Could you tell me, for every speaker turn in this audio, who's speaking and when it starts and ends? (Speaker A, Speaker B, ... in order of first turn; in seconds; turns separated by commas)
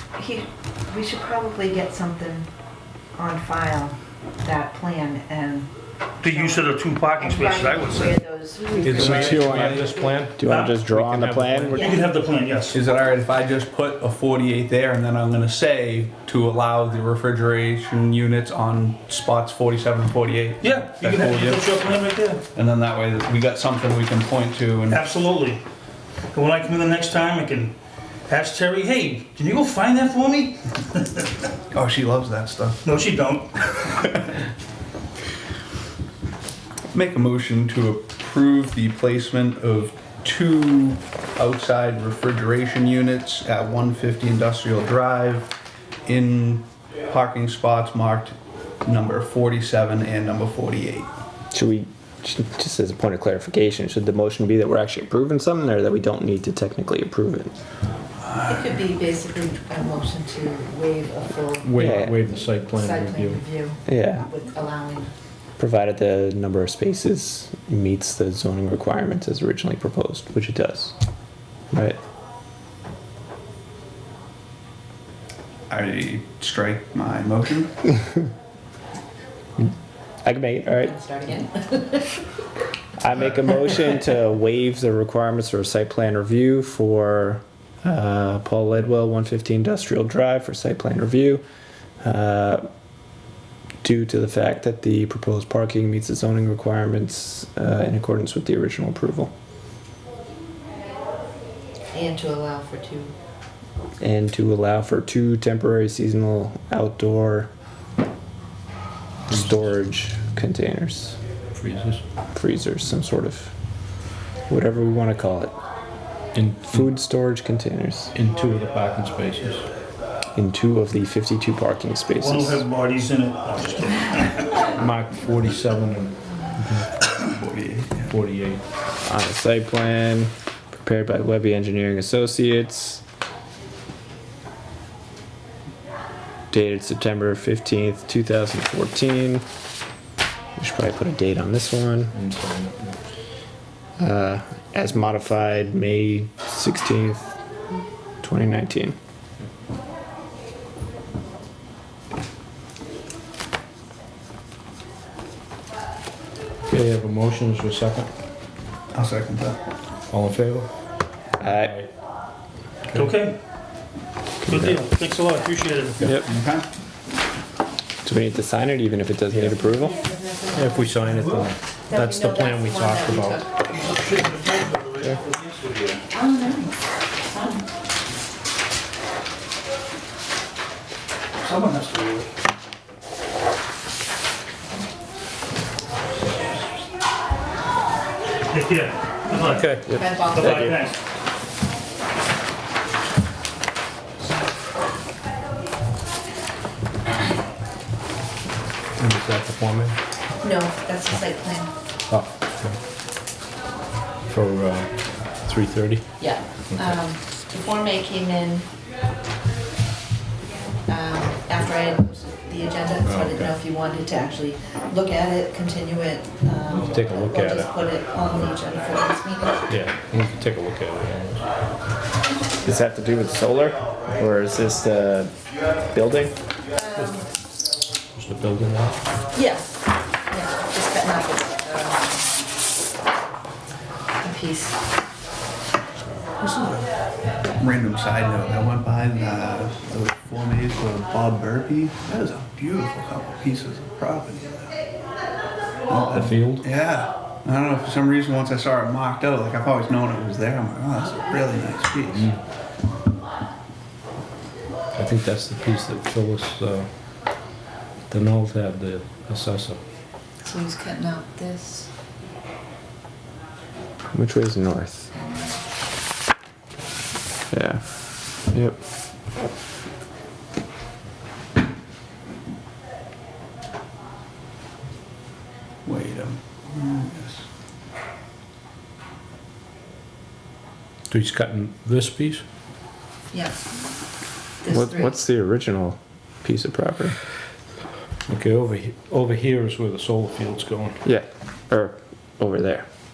Speaker A: 0.2-2.5, Speaker A: 3.1-5.7, Speaker B: 6.2-8.2, Speaker A: 6.2-10.1, Speaker C: 8.8-10.0, Speaker D: 8.8-11.9, Speaker E: 9.0-9.4, Speaker E: 10.4-12.0, Speaker B: 10.4-10.8, Speaker B: 11.8-12.8, Speaker A: 11.8-12.1, Speaker C: 12.7-21.7, Speaker B: 20.6-22.4, Speaker C: 22.5-25.1, Speaker B: 24.9-25.6, Speaker B: 26.3-27.7, Speaker B: 28.3-31.3, Speaker C: 31.7-32.8, Speaker B: 32.8-34.2, Speaker C: 36.9-45.5, Speaker C: 46.0-51.1, Speaker E: 51.5-57.6, Speaker C: 58.2-58.8, Speaker A: 58.5-65.1, Speaker D: 61.6-63.4, Speaker E: 61.8-62.1, Speaker E: 63.9-64.2, Speaker E: 65.6-71.0, Speaker E: 71.7-72.0, Speaker C: 75.7-77.8, Speaker E: 80.2-81.0, Speaker A: 80.8-82.2, Speaker E: 83.0-91.4, Speaker E: 92.0-92.6, Speaker E: 93.8-99.3, Speaker A: 101.9-103.1, Speaker E: 104.0-107.5, Speaker D: 109.3-109.7, Speaker E: 109.3-111.2, Speaker D: 111.5-112.0, Speaker E: 112.3-113.5, Speaker E: 114.5-115.5, Speaker D: 116.3-116.9, Speaker E: 116.6-118.1, Speaker D: 118.1-119.7, Speaker E: 120.3-122.6, Speaker B: 122.2-124.6, Speaker D: 124.8-127.0, Speaker C: 127.2-128.1, Speaker D: 128.1-128.6, Speaker E: 129.1-133.0, Speaker E: 136.5-139.4, Speaker E: 140.6-142.1, Speaker D: 142.1-143.0, Speaker E: 144.0-147.3, Speaker E: 148.2-149.0, Speaker D: 156.7-158.1, Speaker C: 158.9-159.6, Speaker D: 160.1-160.8, Speaker E: 161.4-161.8, Speaker D: 161.4-161.9, Speaker B: 162.9-163.4, Speaker B: 164.5-166.2, Speaker D: 164.5-164.8, Speaker C: 166.2-166.7, Speaker E: 168.0-170.0, Speaker D: 169.3-169.6, Speaker A: 170.0-173.7, Speaker D: 170.5-173.4, Speaker B: 173.8-176.0, Speaker D: 175.3-175.7, Speaker A: 176.1-176.8, Speaker B: 181.4-182.3, Speaker B: 188.5-191.0, Speaker D: 189.4-190.7, Speaker A: 189.9-190.6, Speaker D: 199.0-200.0, Speaker A: 200.4-201.7, Speaker D: 202.1-202.8, Speaker D: 204.3-207.0, Speaker A: 206.2-208.7, Speaker A: 210.9-219.8, Speaker D: 213.0-213.5, Speaker D: 216.7-217.7, Speaker D: 219.7-221.5, Speaker E: 222.6-225.3, Speaker E: 225.8-226.3, Speaker A: 226.7-227.3, Speaker D: 228.1-229.0, Speaker A: 229.3-229.7, Speaker A: 230.3-232.3, Speaker A: 234.2-234.8, Speaker C: 236.4-236.9, Speaker C: 237.6-244.8, Speaker C: 245.9-252.3, Speaker D: 246.1-246.7, Speaker D: 252.1-252.4, Speaker D: 254.9-256.9, Speaker D: 258.1-259.8, Speaker A: 260.4-261.9, Speaker E: 264.1-265.1, Speaker A: 265.2-265.5, Speaker E: 267.5-267.9, Speaker E: 268.5-268.8, Speaker C: 275.9-277.4, Speaker D: 281.1-282.4, Speaker A: 283.3-283.6, Speaker A: 284.6-285.2, Speaker E: 284.7-287.2, Speaker D: 288.3-291.0, Speaker E: 291.1-292.9